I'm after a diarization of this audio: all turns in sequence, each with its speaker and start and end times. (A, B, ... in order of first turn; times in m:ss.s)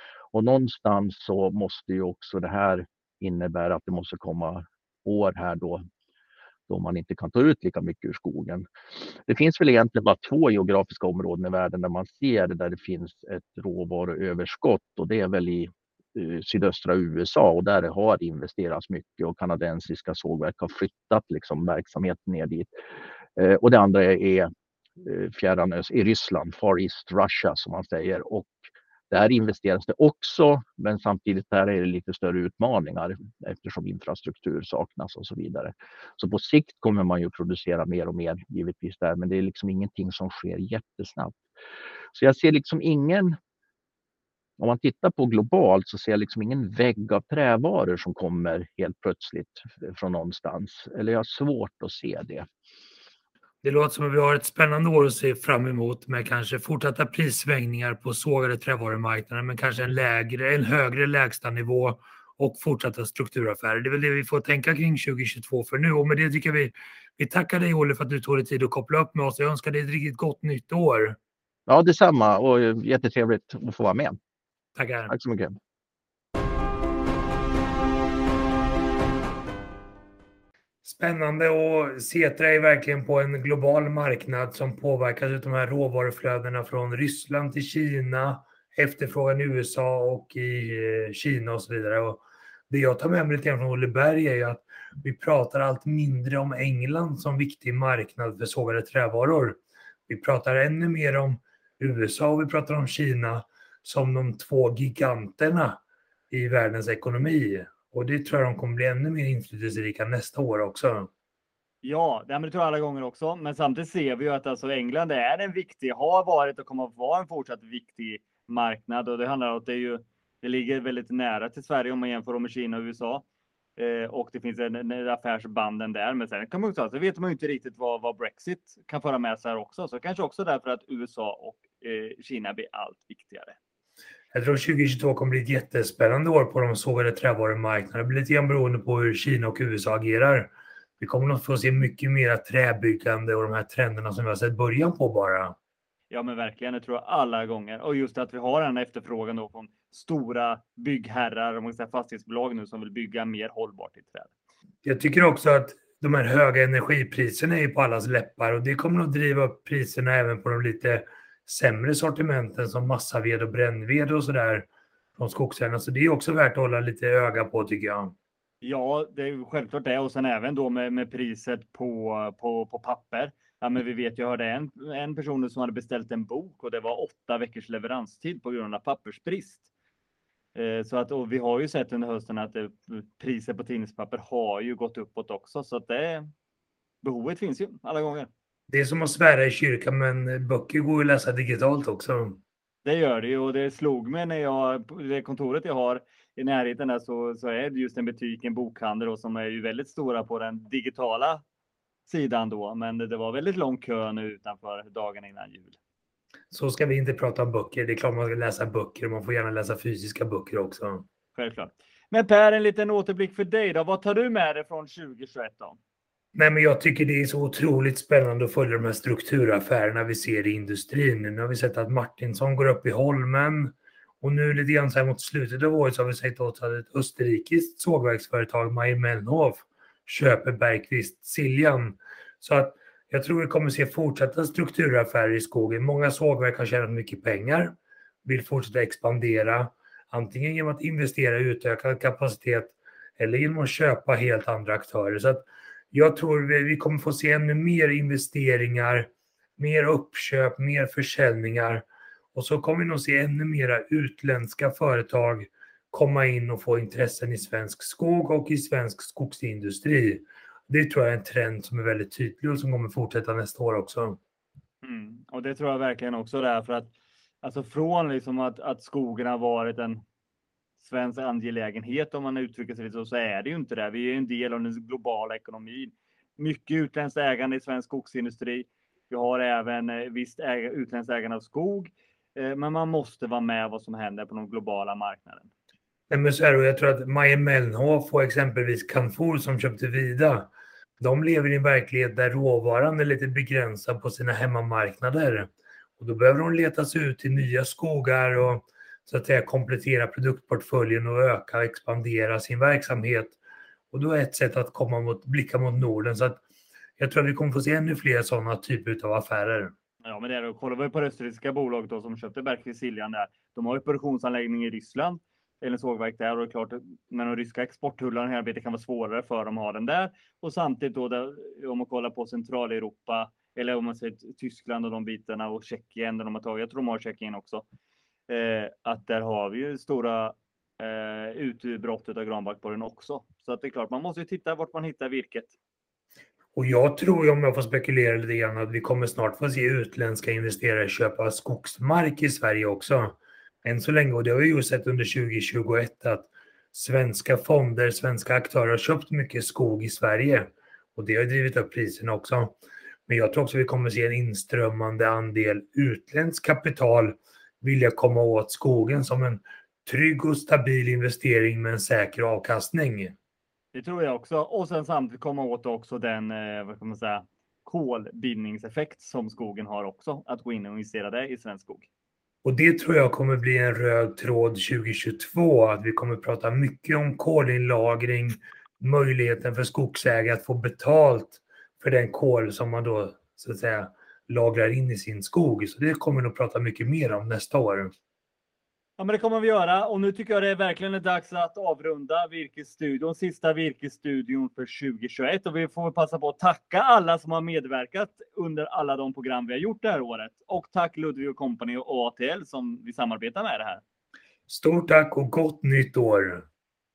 0:00.3-0:05.8 A
0:06.7-0:22.7 A
0:23.4-0:24.5 A
0:25.0-0:28.6 A
0:29.1-0:41.4 A
0:42.1-0:43.4 A
0:44.6-0:52.5 A
0:53.6-1:11.2 B
1:11.7-1:14.2 A
1:14.8-1:15.1 B
1:15.1-1:15.6 A
1:20.8-1:51.1 B
1:51.8-2:03.2 C
2:03.8-2:13.6 C
2:14.3-2:25.6 B
2:26.1-2:34.3 C
2:34.8-2:48.1 B
2:48.6-2:59.6 C
3:00.6-3:06.3 C
3:07.0-3:08.3 C
3:08.7-3:12.4 B
3:12.8-3:21.4 C
3:22.1-3:25.8 C
3:26.5-3:31.1 B
3:31.4-3:35.8 C
3:36.4-4:24.2 B
4:24.8-4:30.0 C
4:30.8-4:45.5 C
4:46.1-5:03.4 B
5:03.9-5:06.4 B
5:07.0-5:09.7 B
5:10.0-5:27.6 C
5:28.3-5:35.5 C
5:36.6-5:52.6 B
5:53.1-6:03.2 B
6:03.7-6:11.9 C
6:12.4-6:27.9 B
6:29.0-6:43.8 C
6:44.5-6:46.4 B